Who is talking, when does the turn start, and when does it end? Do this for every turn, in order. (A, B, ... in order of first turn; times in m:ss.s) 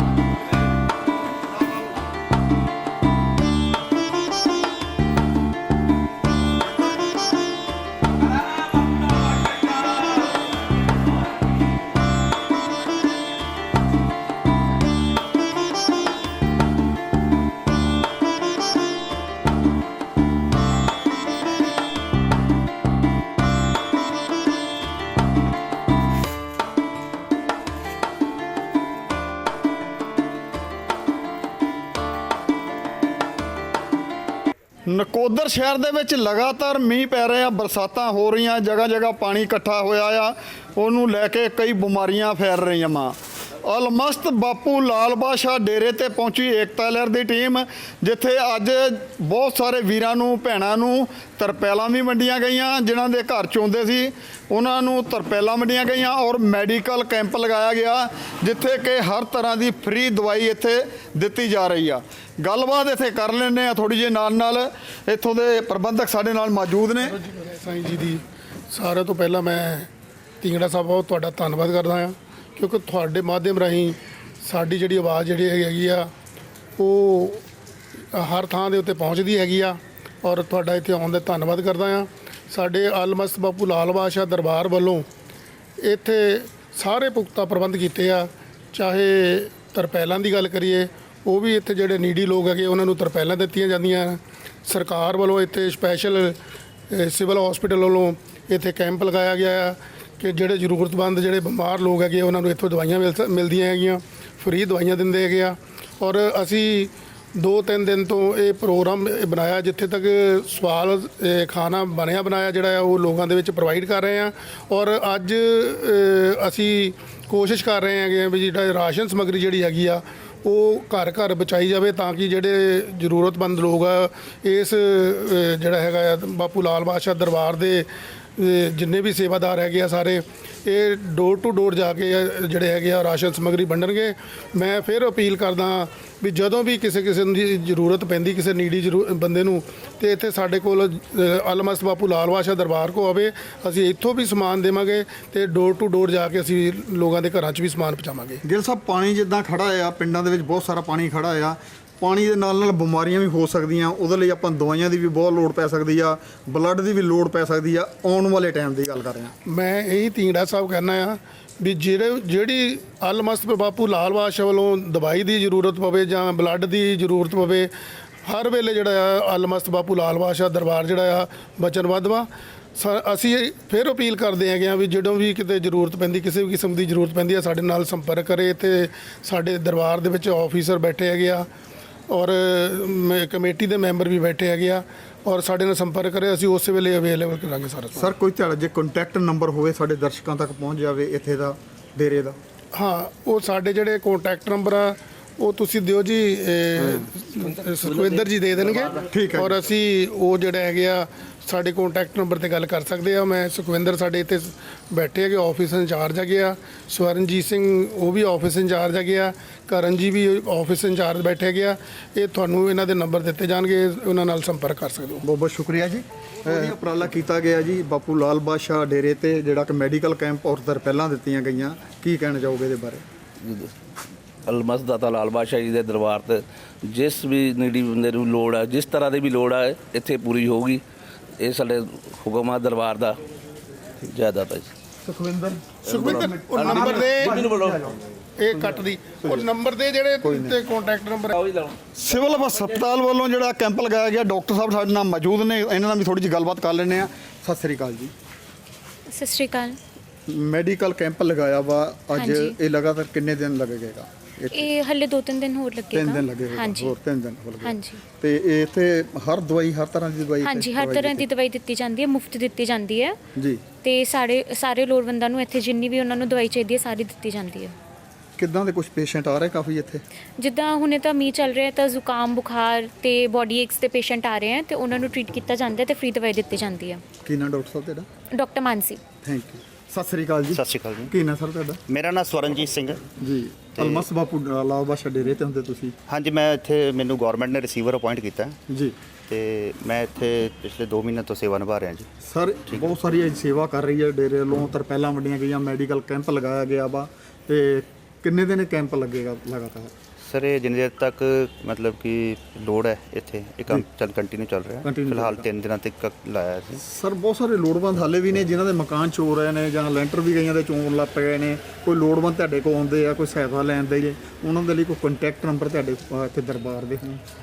0:34.9-1:07.2 A
1:07.0-1:09.9 B
1:10.4-1:16.1 B
1:16.8-1:17.4 B
1:18.1-1:25.1 B
1:25.8-1:36.4 B
1:36.9-2:28.4 B
2:28.4-2:39.3 A
2:39.5-2:47.7 B
2:48.2-3:01.5 B
3:02.1-3:08.1 B
3:08.0-3:12.4 A
3:12.7-3:35.2 B
3:16.8-3:17.1 A
3:19.1-3:19.5 A
3:35.2-3:43.0 A
3:43.4-3:43.7 C
3:44.5-3:50.8 C
3:51.4-3:53.2 C
3:54.0-3:54.7 C
3:55.0-3:58.0 A
3:55.8-3:57.4 B
3:55.9-3:57.8 C
3:58.4-4:01.4 B
4:00.2-4:00.5 A
4:01.9-4:08.1 A
4:09.1-4:09.8 D
4:10.3-4:14.7 A
4:12.2-4:12.6 D
4:14.5-4:17.0 D
4:15.9-4:21.2 A
4:17.6-4:18.0 D
4:20.4-4:23.2 D
4:23.4-4:23.6 A
4:23.8-4:27.8 D
4:28.4-4:30.0 A
4:30.4-4:37.0 D
4:37.2-4:38.1 A
4:38.3-4:39.0 D
4:39.2-4:41.8 A
4:40.5-4:41.1 E
4:41.9-4:43.1 E
4:43.2-4:46.0 A
4:43.8-4:44.1 E
4:46.1-4:48.6 E
4:48.7-4:49.0 A
4:49.3-4:52.1 E
4:52.2-4:59.9 A
5:00.2-5:06.8 E
5:04.8-5:05.5 A
5:06.8-5:17.2 A